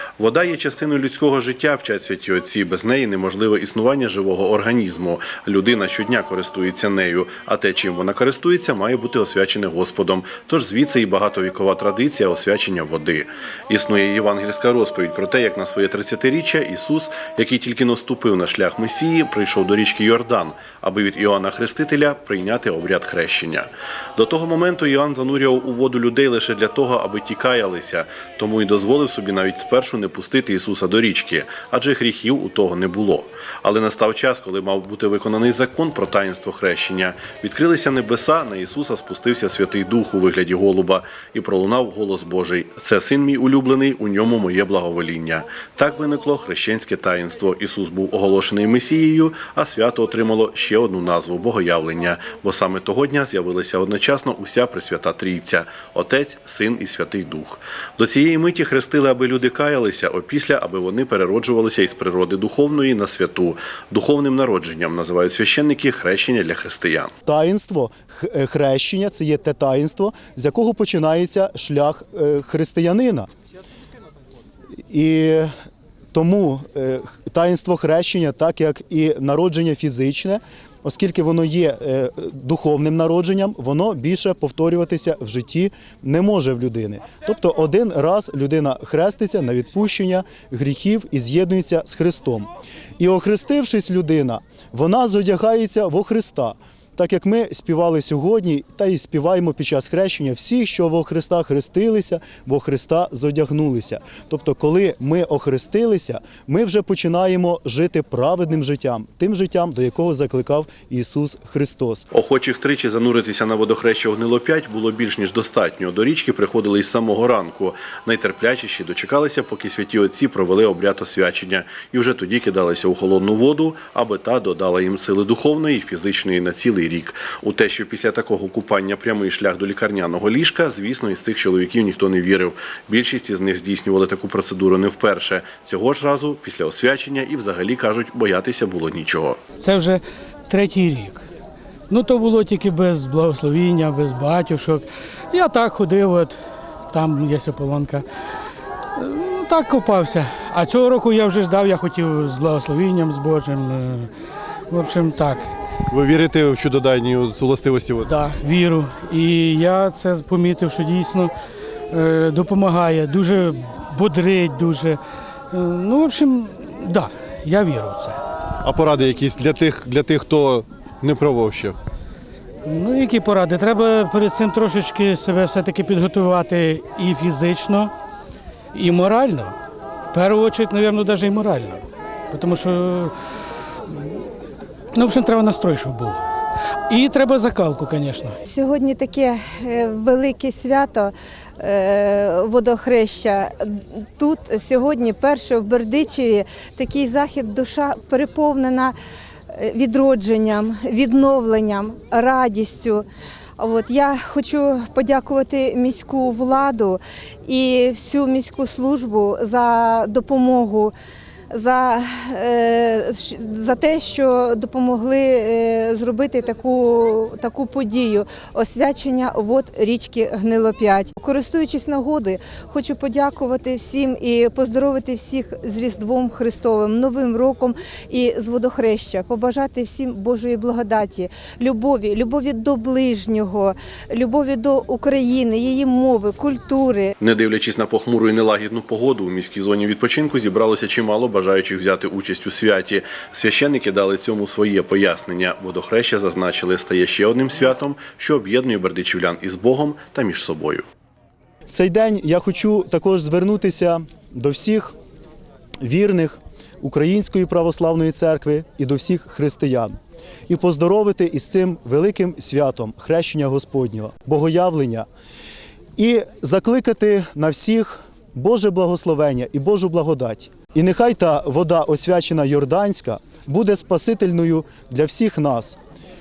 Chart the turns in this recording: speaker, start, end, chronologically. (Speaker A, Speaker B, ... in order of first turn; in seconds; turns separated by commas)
Speaker A: 0.2-67.1, Speaker B: 67.3-73.3, Speaker B: 74.9-75.5, Speaker B: 76.1-112.1, Speaker A: 112.1-139.4, Speaker C: 139.6-141.2, Speaker C: 141.9-146.4, Speaker C: 146.9-148.1, Speaker C: 149.0-154.1, Speaker C: 154.7-155.6, Speaker D: 155.9-158.1, Speaker C: 158.1-161.3, Speaker C: 161.9-165.0, Speaker C: 165.5-168.2, Speaker D: 168.6-171.8, Speaker C: 172.7-177.9, Speaker C: 178.7-179.6, Speaker C: 180.1-183.1, Speaker C: 183.9-184.2, Speaker C: 184.9-186.2, Speaker C: 186.9-188.4, Speaker E: 188.4-198.9, Speaker E: 199.5-203.1, Speaker E: 203.6-210.9, Speaker E: 211.5-237.1, Speaker A: 237.2-250.9, Speaker B: 251.7-254.9, Speaker B: 255.8-260.0, Speaker B: 260.5-265.1, Speaker B: 266.0-275.8